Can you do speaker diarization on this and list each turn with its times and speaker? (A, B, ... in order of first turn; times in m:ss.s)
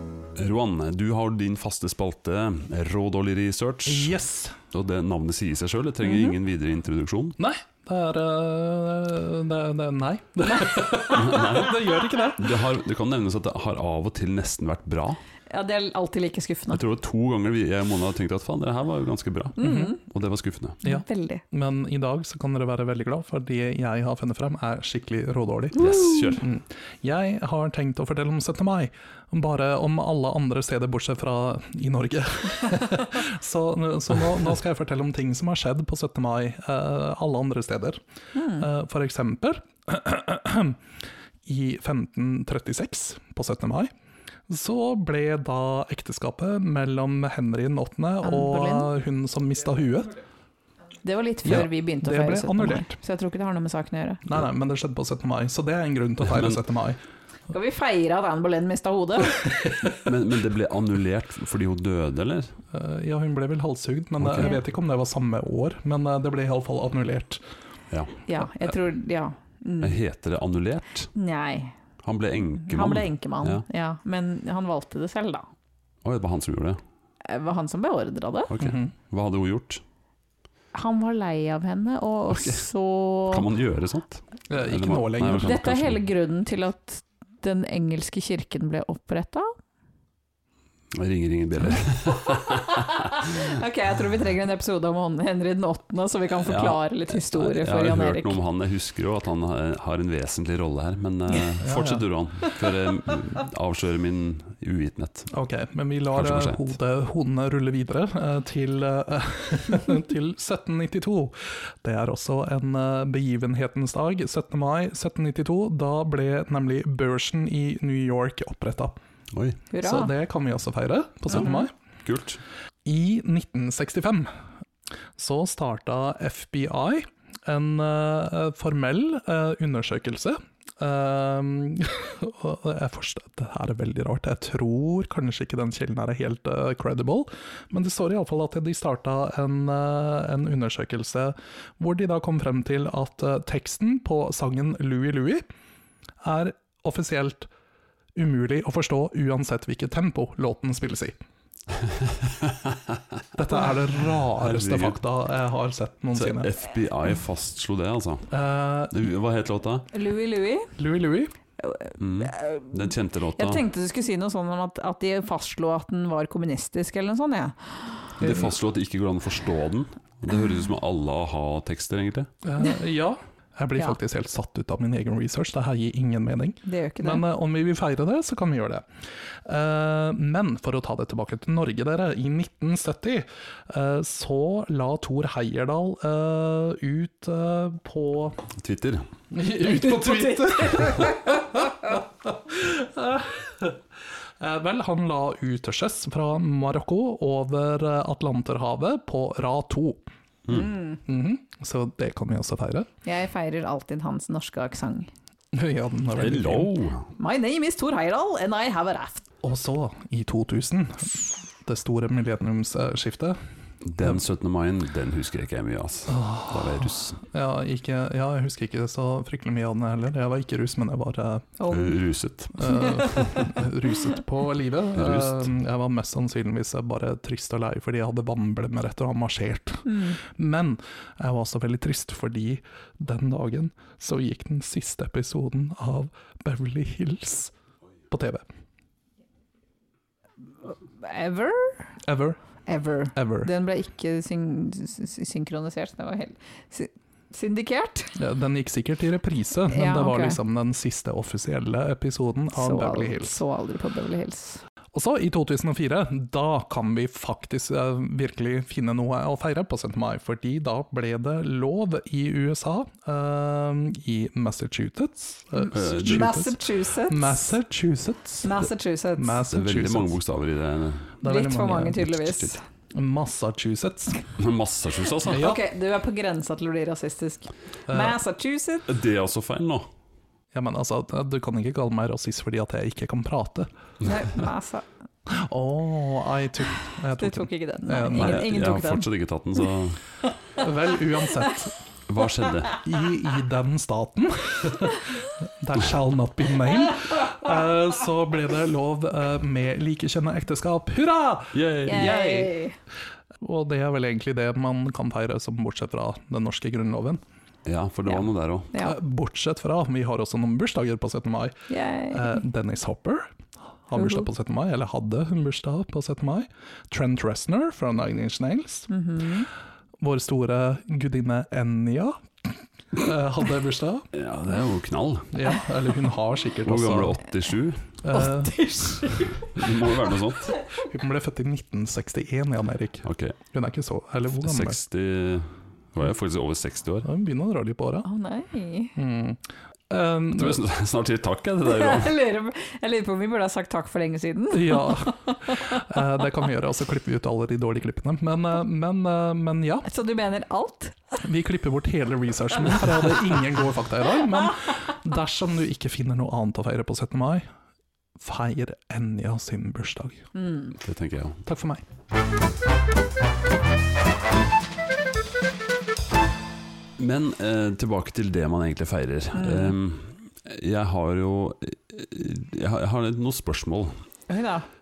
0:00.4-0:04.1 A
0:03.8-0:04.6 B
0:04.7-0:07.4 A
0:06.0-0:06.3 C
0:07.4-0:12.6 B
0:11.1-0:15.2 A
0:15.5-0:16.8 C
0:16.7-0:20.8 A
0:19.6-0:20.0 C
0:19.6-0:19.9 B
0:20.8-0:21.4 C
0:20.8-0:25.8 B
0:25.7-0:26.5 A
0:26.4-0:38.0 B
0:38.3-0:38.7 C
0:38.6-0:40.8 B
0:41.4-0:43.9 B
0:44.5-0:50.2 B
0:48.2-0:48.9 C
0:51.0-0:54.2 C
0:51.4-0:53.0 B
0:54.2-0:57.0 B
0:56.2-0:56.6 A
0:57.5-0:59.6 C
0:59.9-1:02.5 A
1:02.7-1:07.4 B
1:04.2-1:04.5 A
1:07.9-1:08.2 A
1:08.3-1:10.0 C
1:09.8-1:11.1 A
1:11.1-1:11.7 C
1:12.0-1:13.6 A
1:12.7-1:15.5 C
1:16.0-1:16.8 A
1:17.2-1:18.5 C
1:18.5-1:19.8 A
1:18.6-1:18.9 B
1:20.7-1:23.4 C
1:22.3-1:22.6 A
1:23.3-1:26.0 A
1:24.5-1:25.6 B
1:25.4-1:29.5 C
1:30.9-1:33.4 A
1:33.0-1:38.4 C
1:36.4-1:45.3 A
1:41.6-1:42.0 B
1:45.3-1:59.0 B
1:46.1-1:46.7 A
1:59.3-1:59.6 A
1:59.7-2:00.1 C
1:59.8-2:01.7 B
2:02.0-2:02.4 A
2:02.8-2:04.3 B
2:05.2-2:25.4 B
2:26.2-2:27.5 B
2:28.2-2:31.2 B
2:31.8-2:33.0 A
2:33.4-2:36.5 B
2:34.4-2:35.0 A
2:36.1-2:38.3 A
2:38.3-2:39.0 B
2:38.9-2:39.9 A
2:39.9-2:40.7 C
2:40.8-2:41.3 B
2:41.6-2:48.1 C
2:42.0-2:43.6 A
2:48.2-2:52.3 A
2:52.4-2:58.9 B
2:56.6-2:57.2 C
2:59.4-3:08.4 B
3:08.5-3:09.0 A
3:09.3-3:13.8 B
3:09.8-3:11.1 C
3:14.4-3:20.0 B
3:20.5-3:20.8 A
3:20.5-3:21.0 C
3:21.0-3:22.9 B
3:23.0-3:25.1 C
3:25.5-3:26.7 B
3:26.1-3:27.1 A
3:27.2-3:29.2 C
3:29.4-3:33.4 B
3:33.8-3:37.2 A
3:36.1-3:41.5 B
3:41.6-3:42.0 C
3:41.7-3:43.5 A
3:42.6-3:57.5 B
3:44.9-3:45.5 A
3:49.9-3:50.2 C
3:58.1-3:58.4 B
4:01.0-4:01.9 C
4:02.0-4:02.4 B
4:02.7-4:08.2 C
4:03.1-4:03.5 B
4:08.2-4:13.4 B
4:09.7-4:10.4 C
4:12.5-4:14.6 C
4:14.9-4:30.2 B
4:25.6-4:27.5 C
4:25.7-4:26.4 A
4:28.4-4:29.4 C
4:29.5-4:31.2 A
4:31.2-4:32.3 B
4:31.2-4:32.6 C
4:32.9-4:34.2 B
4:34.4-4:35.5 A
4:35.2-4:38.9 C
4:35.3-4:35.6 B
4:37.9-4:38.2 B
4:38.9-4:39.9 A
4:40.5-4:43.7 B
4:44.0-4:44.8 C
4:45.3-4:48.5 B
4:47.2-4:49.1 C
4:48.1-4:50.0 A
4:50.6-4:51.7 B
4:52.1-4:52.8 A
4:52.8-5:02.5 B
5:01.5-5:02.4 A
5:01.9-5:02.8 C
5:03.4-5:07.2 B
5:07.6-5:08.7 A
5:08.1-5:09.0 C
5:08.8-5:11.6 B
5:11.7-5:12.4 C
5:12.1-5:13.3 B
5:13.9-5:18.9 B
5:13.9-5:14.2 C
5:18.9-5:19.5 C
5:20.0-5:24.1 B
5:24.1-5:25.4 A
5:25.3-5:27.2 B
5:26.6-5:27.9 A
5:28.0-5:28.7 B
5:28.1-5:29.5 C
5:29.3-5:30.6 A
5:30.8-5:34.8 B
5:33.0-5:33.4 A
5:34.3-5:37.1 A
5:37.0-5:38.1 B
5:38.0-5:39.0 C
5:39.0-5:40.6 B
5:40.3-5:42.2 A
5:41.6-5:45.8 C
5:44.5-5:49.9 B
5:49.8-5:51.1 C
5:51.2-5:57.4 B
5:58.2-6:00.3 B
6:00.3-6:00.7 C
6:00.8-6:01.4 A
6:01.4-6:01.8 B
6:07.0-6:14.0 A
6:09.3-6:09.8 C
6:14.3-6:14.7 C